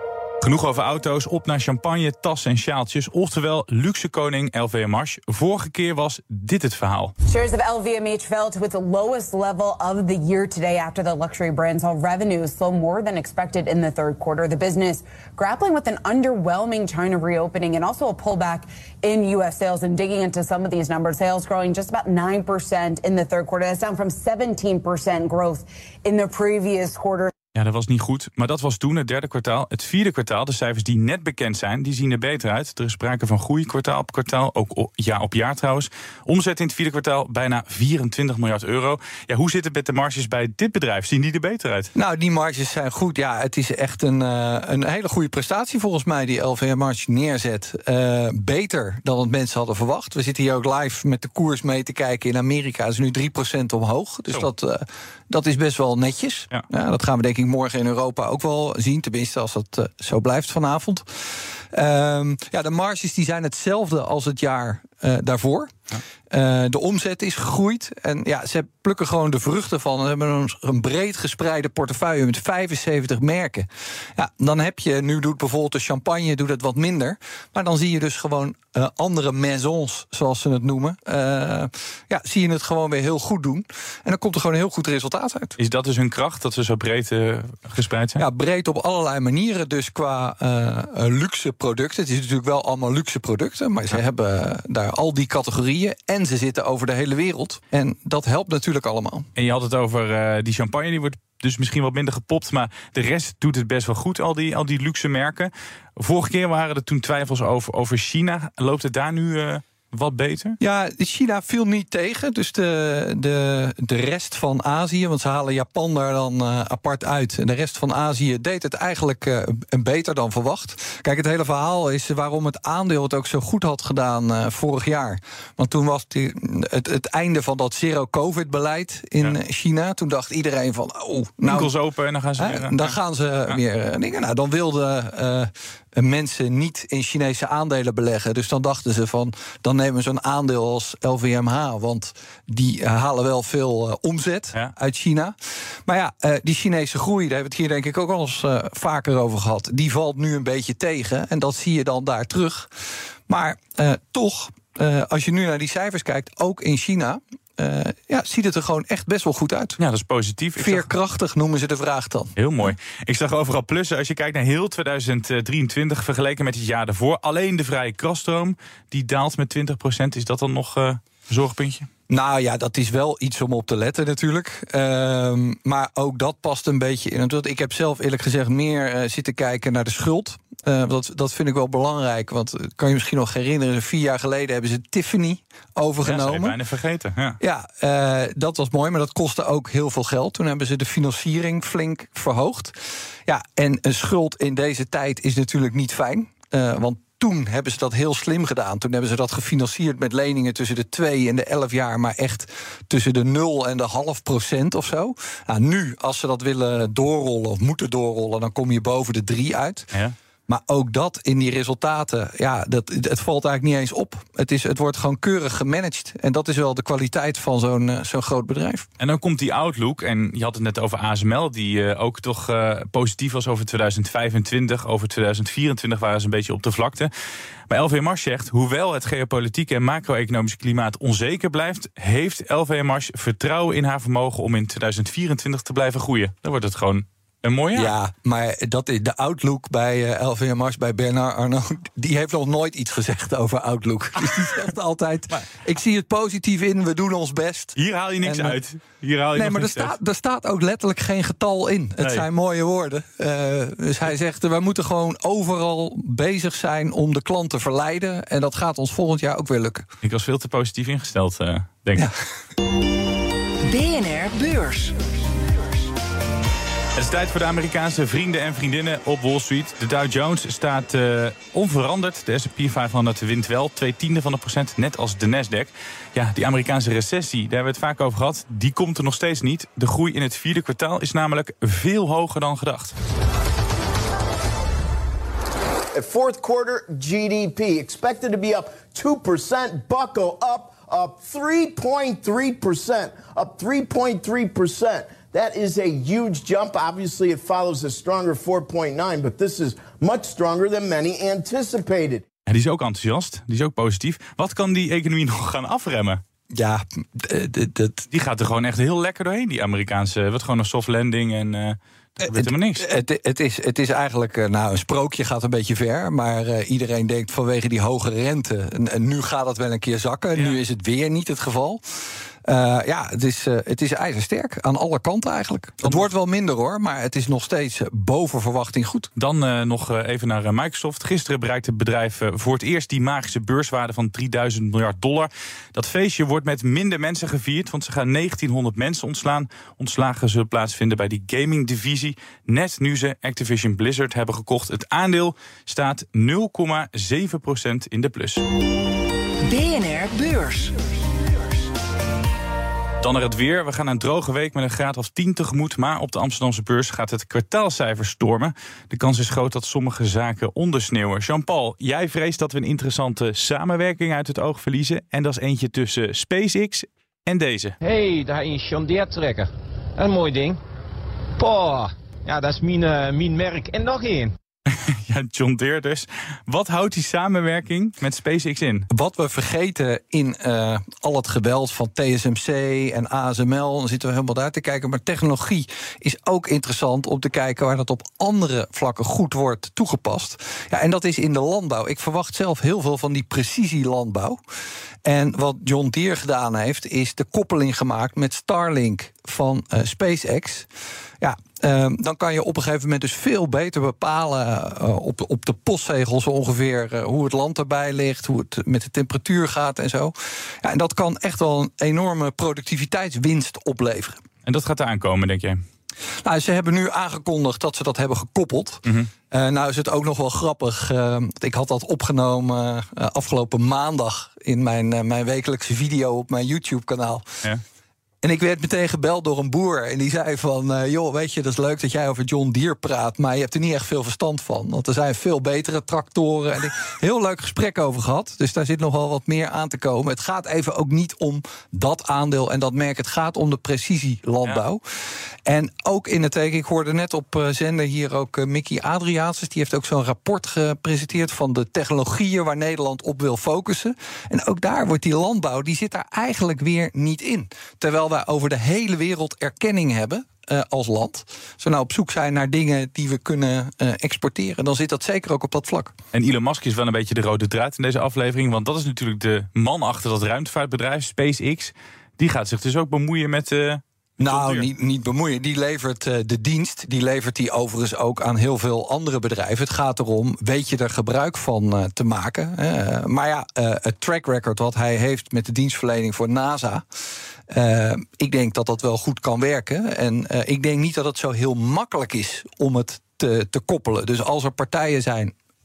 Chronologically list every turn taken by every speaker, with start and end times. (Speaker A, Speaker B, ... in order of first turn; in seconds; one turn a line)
Speaker A: 0.4-7.1
Speaker B: 7.3-27.3
Speaker A: 27.5-41.9
Speaker C: 41.9-65.8
Speaker C: 66.3-85.5
Speaker A: 85.6-88.2
Speaker C: 88.2-99.3
Speaker A: 99.4-110.6
Speaker C: 110.6-131.7
Speaker A: 131.4-132.9
Speaker C: 132.4-152.7
Speaker C: 153.3-159.8
Speaker A: 159.8-160.9
Speaker C: 160.6-162.3
Speaker A: 162.4-171.9
Speaker C: 172.1-186.6
Speaker A: 186.0-187.4
Speaker C: 187.4-209.9
Speaker C: 210.5-218.9
Speaker A: 219.0-227.1
Speaker A: 227.7-237.9
Speaker C: 237.7-248.6
Speaker A: 247.8-249.9
Speaker C: 249.3-259.9
Speaker A: 260.0-262.1
Speaker D: 263.6-264.9
Speaker A: 266.9-282.9
Speaker E: 285.9-302.2
Speaker A: 302.5-306.2
Speaker C: 306.5-308.1
Speaker A: 308.1-312.9
Speaker C: 312.2-321.8
Speaker C: 322.4-329.1
Speaker A: 329.1-348.4
Speaker D: 349.4-350.7
Speaker A: 353.0-367.8
Speaker F: 367.8-370.6
Speaker F: 371.4-374.3
Speaker A: 374.7-378.9
Speaker C: 378.9-394.4
Speaker C: 395.0-400.7
Speaker C: 401.2-414.2
Speaker A: 414.4-415.6
Speaker C: 416.2-427.3
Speaker C: 428.2-465.9
Speaker A: 466.1-474.7
Speaker C: 474.2-486.9
Speaker C: 487.5-495.3